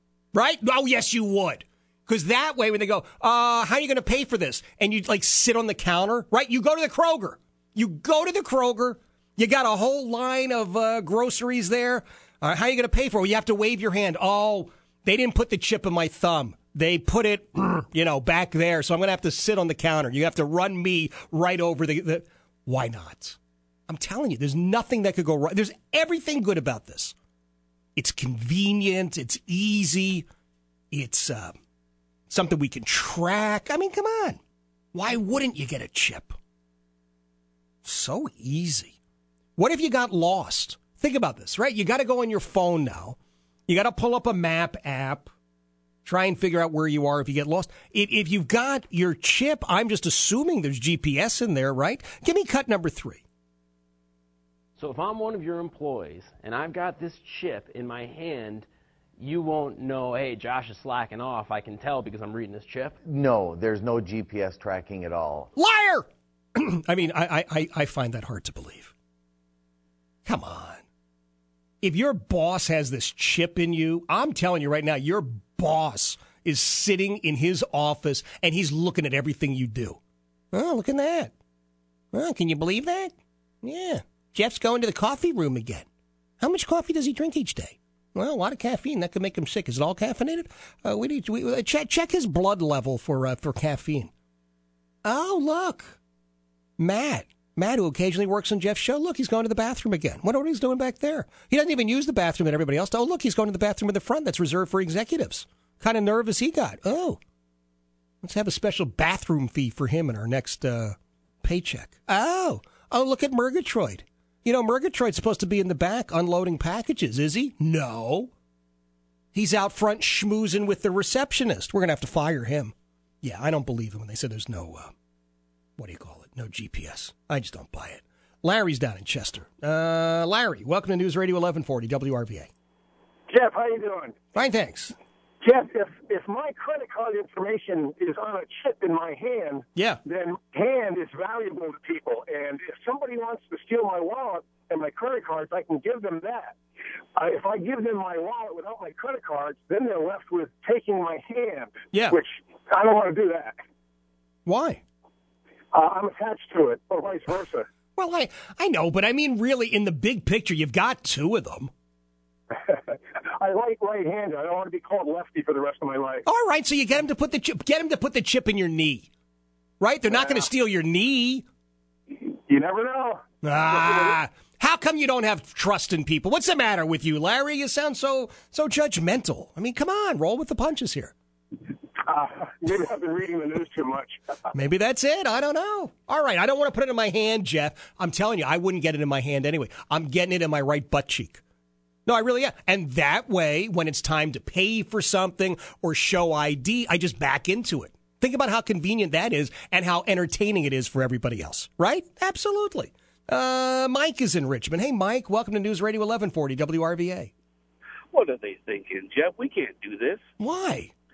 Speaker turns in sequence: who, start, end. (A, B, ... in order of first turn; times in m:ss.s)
0:00.3-0:23.4 A
0:23.9-0:27.2 A
0:28.0-0:30.3 A
0:30.9-0:31.5 A
0:32.3-0:34.4 A
0:34.9-0:36.4 A
0:37.8-0:39.0 A
0:39.6-0:43.2 A
0:43.7-0:45.3 A
0:46.0-0:53.2 A
0:54.8-0:58.7 B
0:59.2-1:03.0 B
1:03.0-1:05.5 C
1:05.6-1:08.9 A
1:10.3-1:10.8 A
1:11.8-1:20.0 A
1:20.5-1:21.3 A
1:22.1-1:25.9 A
1:26.4-1:34.1 A
1:35.0-1:36.0 A
1:36.8-1:47.2 A
1:48.2-1:58.3 A
1:59.3-2:04.9 A
2:05.8-2:12.5 A
2:13.3-2:14.2 D
2:14.4-2:15.0 A
2:15.4-2:26.6 D
2:27.2-2:33.6 D
2:31.9-2:32.2 A
2:34.5-2:34.8 A
2:35.7-2:37.7 D
2:38.0-2:41.7 A
2:42.5-2:46.2 D
2:46.3-2:49.1 A
2:49.8-2:51.4 A
2:52.1-2:53.2 D
2:53.4-3:01.1 A
3:02.0-3:04.2 D
3:04.5-3:11.4 A
3:12.1-3:27.3 A
3:28.1-3:30.2 E
3:30.4-3:30.9 A